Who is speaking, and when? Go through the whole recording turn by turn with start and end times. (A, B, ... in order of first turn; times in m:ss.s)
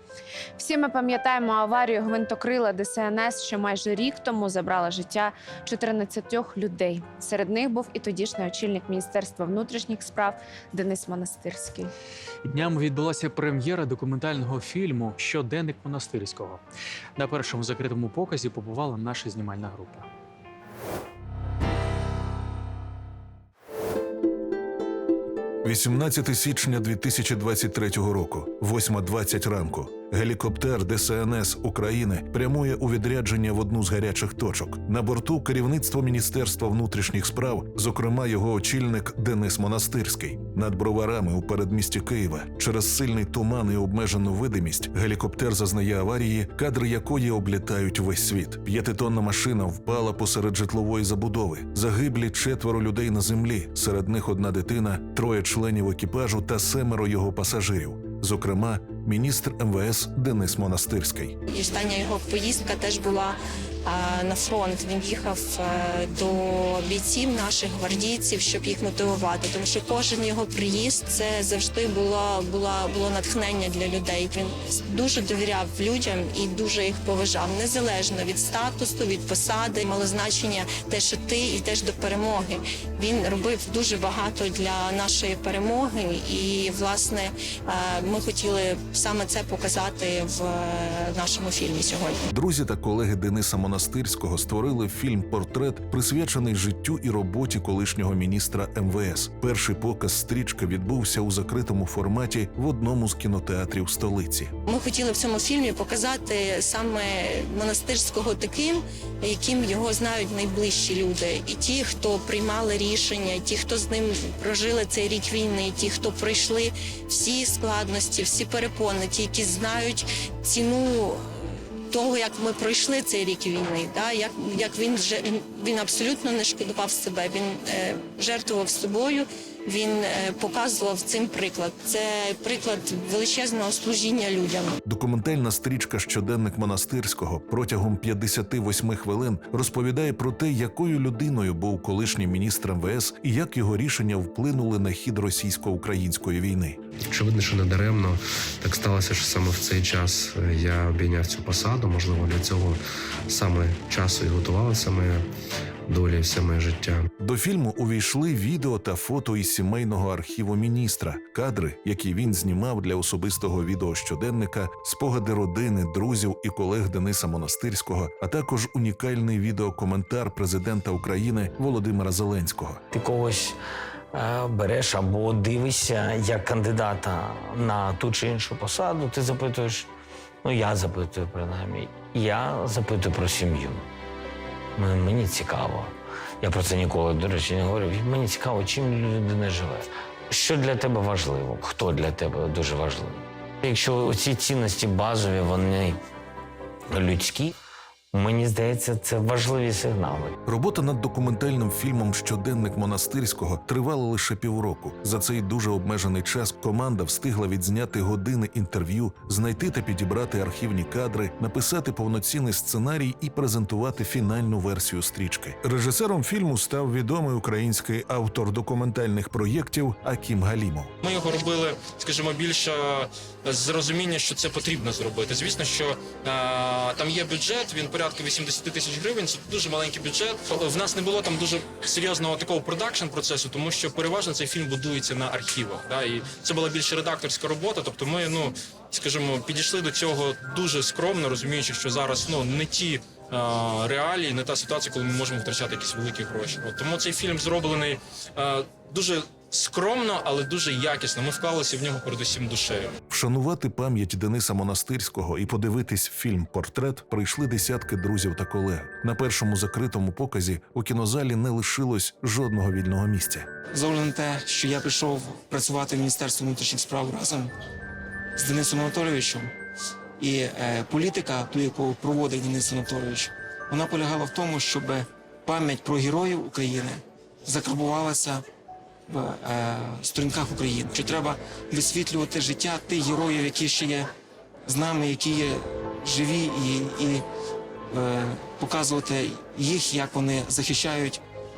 0:00.6-0:11.9 A
0:12.4-0:16.6 B
0:17.2-0:20.1 B
0:25.6-1:01.4 C
1:01.5-1:32.3 D
1:32.3-1:44.5 C
1:44.7-2:14.8 D
2:14.8-2:26.8 C
2:27.1-2:35.3 E
2:35.9-2:37.1 E
2:37.2-2:52.8 C
2:52.9-2:53.6 F
2:54.1-2:59.9 F
3:00.4-3:03.9 F
3:04.8-3:16.0 F
3:16.9-3:17.5 F
3:18.1-3:20.4 F
3:20.5-3:40.9 C
3:41.0-4:12.9 G
4:13.1-4:23.5 C
4:23.7-4:27.5 H
4:28.4-4:29.5 H
4:30.2-4:38.4 H
4:39.1-4:44.1 H
4:44.7-4:47.2 H
4:47.9-4:51.2 H